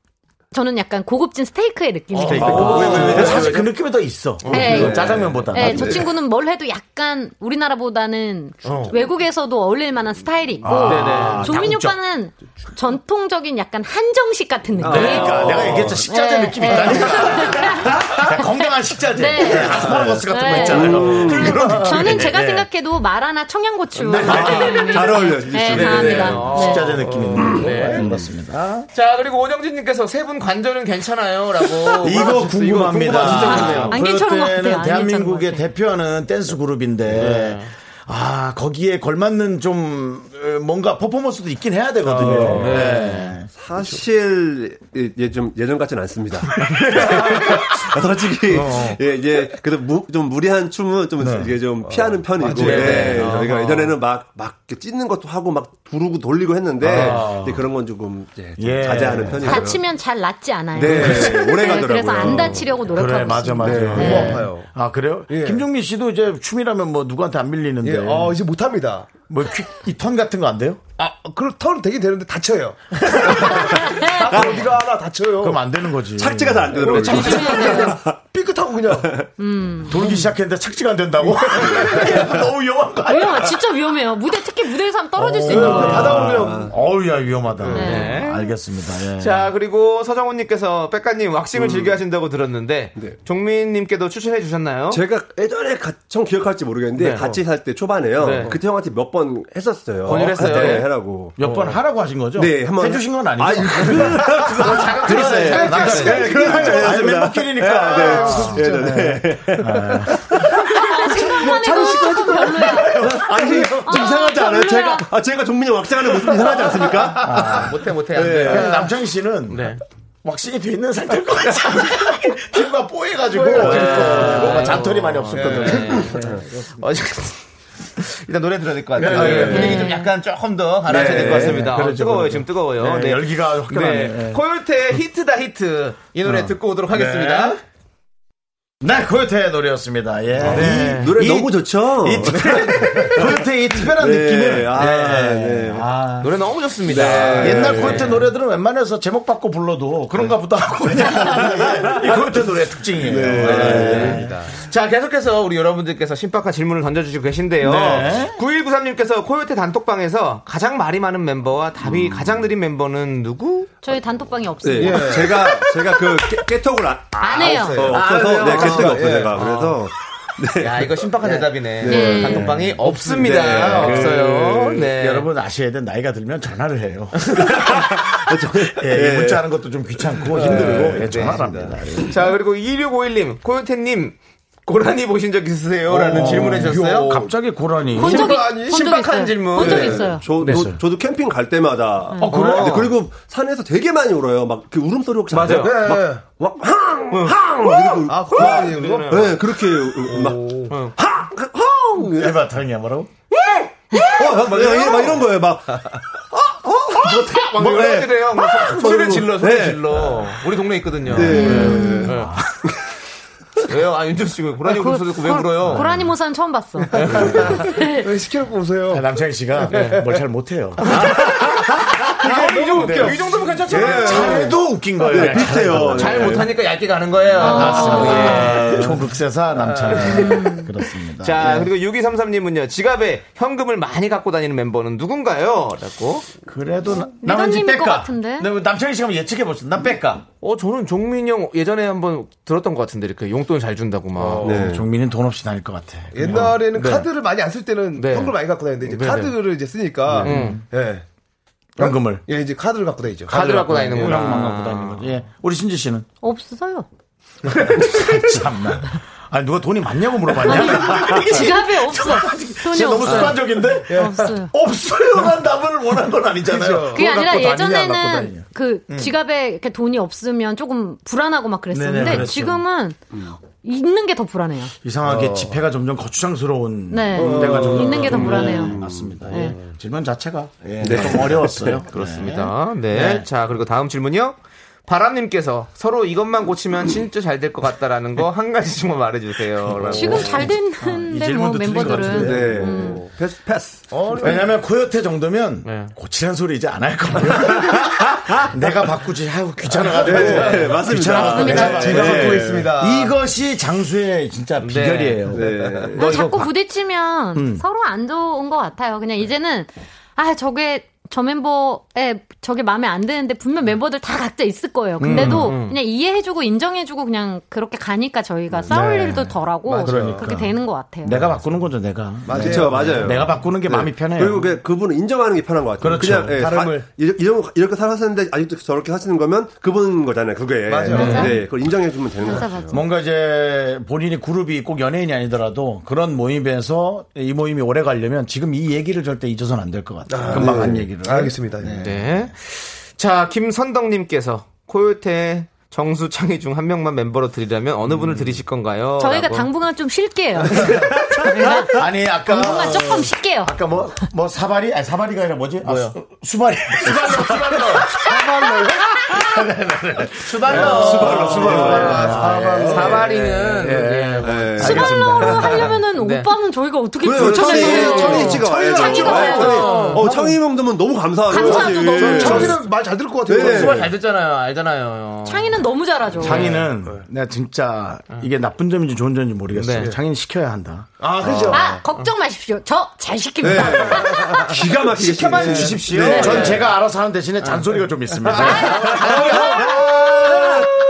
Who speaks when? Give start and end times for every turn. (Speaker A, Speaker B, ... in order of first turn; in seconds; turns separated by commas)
Speaker A: 0.5-3.1, Speaker B: 2.1-6.1, Speaker C: 2.2-3.7, Speaker D: 2.3-3.6, Speaker C: 4.4-5.0, Speaker A: 4.5-26.9, Speaker D: 4.5-6.1, Speaker C: 8.6-8.9, Speaker B: 10.6-12.0, Speaker C: 10.8-11.6, Speaker D: 14.8-16.1, Speaker B: 14.8-22.6, Speaker C: 14.9-15.8, Speaker D: 16.7-17.2, Speaker D: 19.4-22.3, Speaker C: 24.0-24.9, Speaker B: 24.0-25.3, Speaker D: 24.1-26.6, Speaker C: 25.6-28.1, Speaker B: 26.1-28.9, Speaker D: 27.4-28.3, Speaker C: 28.9-34.0, Speaker B: 32.0-43.5, Speaker A: 33.3-35.6, Speaker C: 37.1-37.7, Speaker D: 42.1-42.9, Speaker C: 42.1-43.2, Speaker D: 43.5-59.9, Speaker B: 46.7-47.6, Speaker B: 48.5-49.0, Speaker B: 51.2-51.6, Speaker E: 51.8-53.3, Speaker C: 52.5-54.0, Speaker B: 52.7-53.5, Speaker B: 56.8-57.6, Speaker B: 58.6-59.7, Speaker A: 59.4-64.4, Speaker D: 60.7-62.9, Speaker B: 60.9-61.3, Speaker B: 62.2-68.4, Speaker E: 63.6-64.7, Speaker D: 63.6-64.3, Speaker E: 65.3-65.6, Speaker E: 67.8-69.1, Speaker B: 69.3-70.8, Speaker E: 71.0-75.6, Speaker A: 73.8-74.3, Speaker D: 74.3-74.7, Speaker B: 75.4-77.6, Speaker D: 76.1-78.2, Speaker E: 76.8-79.3, Speaker A: 77.0-78.0, Speaker A: 79.4-80.0, Speaker B: 79.8-83.6, Speaker E: 79.9-80.3, Speaker E: 81.2-82.3, Speaker A: 83.0-86.3, Speaker B: 85.2-89.5, Speaker E: 85.4-86.7, Speaker D: 85.9-86.7, Speaker E: 87.6-88.0, Speaker A: 87.7-88.4, Speaker C: 87.7-88.4, Speaker C: 89.2-95.0, Speaker D: 91.5-92.0, Speaker D: 94.9-101.7, Speaker C: 97.0-97.3, Speaker C: 98.2-98.6, Speaker C: 100.0-100.9, Speaker B: 100.2-110.8, Speaker D: 102.3-118.8, Speaker E: 104.4-109.2, Speaker C: 104.5-106.5, Speaker A: 110.8-113.1, Speaker E: 111.2-112.8, Speaker B: 112.5-113.7, Speaker E: 113.5-113.8, Speaker A: 113.8-115.1, Speaker B: 117.1-117.8, Speaker C: 117.3-118.9, Speaker B: 118.4-126.8, Speaker C: 119.5-119.8, Speaker C: 123.4-127.4, Speaker D: 123.6-124.3, Speaker D: 126.1-126.4, Speaker C: 128.0-137.6, Speaker B: 128.9-130.0, Speaker D: 129.1-129.7, Speaker A: 129.4-130.1, Speaker D: 130.9-131.6, Speaker B: 130.9-134.4, Speaker B: 136.2-137.6, Speaker B: 138.8-154.3, Speaker D: 140.4-145.9, Speaker C: 140.4-141.1, Speaker C: 146.2-148.3, Speaker D: 146.8-148.1, Speaker D: 153.0-154.3, Speaker C: 153.4-163.7, Speaker B: 157.6-158.4, Speaker D: 161.9-162.4, Speaker A: 163.8-165.8, Speaker D: 164.6-174.2, Speaker E: 164.8-165.5, Speaker A: 167.2-167.9, Speaker E: 167.4-169.4, Speaker C: 167.9-169.8, Speaker C: 170.6-175.3, Speaker A: 171.8-172.5, Speaker B: 172.3-172.8, Speaker B: 173.6-182.3, Speaker D: 177.4-179.4, Speaker C: 180.3-187.2, Speaker D: 180.3-181.4, Speaker D: 185.9-186.6, Speaker B: 186.1-188.3, Speaker E: 186.1-187.3, Speaker A: 187.9-190.3, Speaker C: 188.0-190.7, Speaker E: 188.0-188.8, Speaker D: 189.5-202.4, Speaker B: 190.3-190.8, Speaker A: 192.1-192.4, Speaker B: 192.2-192.9, Speaker C: 192.3-192.9, Speaker C: 195.3-195.9, Speaker E: 195.5-196.3, Speaker C: 197.1-197.4, Speaker E: 197.9-200.8, Speaker C: 198.3-199.4, Speaker C: 200.7-200.9, Speaker B: 202.1-203.1, Speaker D: 203.7-210.4, Speaker E: 204.4-205.2, Speaker C: 207.0-212.3, Speaker D: 211.1-212.2, Speaker B: 211.1-212.6, Speaker A: 211.2-212.1, Speaker C: 213.6-215.9, Speaker A: 214.7-218.1, Speaker B: 215.7-216.1, Speaker E: 216.9-220.2, Speaker C: 217.0-217.5, Speaker B: 217.2-217.4, Speaker B: 218.9-221.3, Speaker C: 219.7-220.0, Speaker C: 220.8-221.4, Speaker B: 221.9-223.2, Speaker C: 222.2-224.5, Speaker E: 222.2-224.4, Speaker D: 223.7-226.5, Speaker B: 223.7-226.4, Speaker C: 225.9-229.0, Speaker B: 227.4-231.7, Speaker A: 227.4-228.6, Speaker D: 228.4-228.9, Speaker C: 229.6-230.6, Speaker A: 230.1-230.7, Speaker C: 231.2-236.2, Speaker B: 236.4-240.2, Speaker A: 237.0-238.5, Speaker C: 240.4-244.6, Speaker E: 244.2-244.6, Speaker D: 244.4-244.8, Speaker B: 244.4-246.6, Speaker E: 246.1-251.0, Speaker C: 246.3-247.1, Speaker C: 247.9-249.3, Speaker B: 250.1-250.6, Speaker C: 250.2-250.6, Speaker E: 251.8-254.4, Speaker B: 251.8-252.2, Speaker C: 253.3-255.0, Speaker B: 253.3-256.1, Speaker A: 256.2-256.9, Speaker B: 257.5-269.2, Speaker A: 260.4-264.5, Speaker C: 263.0-263.4, Speaker E: 263.9-264.3, Speaker E: 266.5-267.0, Speaker A: 266.9-274.7, Speaker B: 271.7-272.6, Speaker D: 272.0-272.3, Speaker B: 274.8-283.3, Speaker E: 275.0-275.6, Speaker A: 276.9-278.8, Speaker E: 277.1-278.0, Speaker D: 277.4-279.4, Speaker A: 279.3-279.6, Speaker D: 280.8-281.8, Speaker C: 281.9-290.5, Speaker B: 289.7-292.9, Speaker A: 289.9-293.1, Speaker D: 290.1-290.4, Speaker D: 291.9-293.9, Speaker E: 293.9-294.5, Speaker B: 294.2-306.5, Speaker C: 295.6-295.9, Speaker D: 299.9-302.7, Speaker E: 300.1-300.5, Speaker A: 301.2-301.9, Speaker E: 301.3-303.1, Speaker C: 304.6-305.3, Speaker D: 305.3-306.4, Speaker A: 305.9-321.2, Speaker B: 307.3-307.6, Speaker B: 315.0-315.6, Speaker C: 315.1-315.8, Speaker B: 318.7-324.6, Speaker E: 319.6-320.3, Speaker E: 322.2-323.3, Speaker D: 322.3-332.8, Speaker B: 325.8-326.5, Speaker E: 326.1-326.9, Speaker E: 330.6-331.4, Speaker A: 330.9-331.4, Speaker B: 330.9-331.4, Speaker A: 332.2-332.8, Speaker B: 332.7-342.3, Speaker E: 340.1-341.8, Speaker D: 340.3-340.9, Speaker C: 341.8-349.5, Speaker A: 349.0-353.6, Speaker E: 350.5-350.9, Speaker C: 351.2-351.5, Speaker B: 351.2-365.7, Speaker C: 355.6-355.9, Speaker C: 356.9-357.9, Speaker E: 357.8-358.9, Speaker C: 360.2-364.9, Speaker E: 360.5-363.5, Speaker D: 360.7-362.0, Speaker D: 364.2-365.8, Speaker A: 364.6-370.0, Speaker C: 365.8-366.3, Speaker D: 367.0-372.6, Speaker C: 367.1-368.4, Speaker B: 367.9-370.2, Speaker E: 367.9-370.4, Speaker C: 368.9-370.1, Speaker A: 371.3-372.5, Speaker E: 371.3-373.9, Speaker D: 373.2-373.9, Speaker C: 373.3-376.7, Speaker A: 375.2-376.5, Speaker B: 376.1-381.3, Speaker C: 379.5-379.9, Speaker E: 381.0-381.8, Speaker D: 381.2-381.7, Speaker A: 381.5-384.6, Speaker D: 383.4-386.7, Speaker E: 384.1-384.5, Speaker C: 385.0-386.6, Speaker E: 385.2-385.5, Speaker B: 385.3-389.8, Speaker A: 386.0-386.5, Speaker C: 388.2-390.5, Speaker A: 388.3-389.8, Speaker D: 390.3-390.7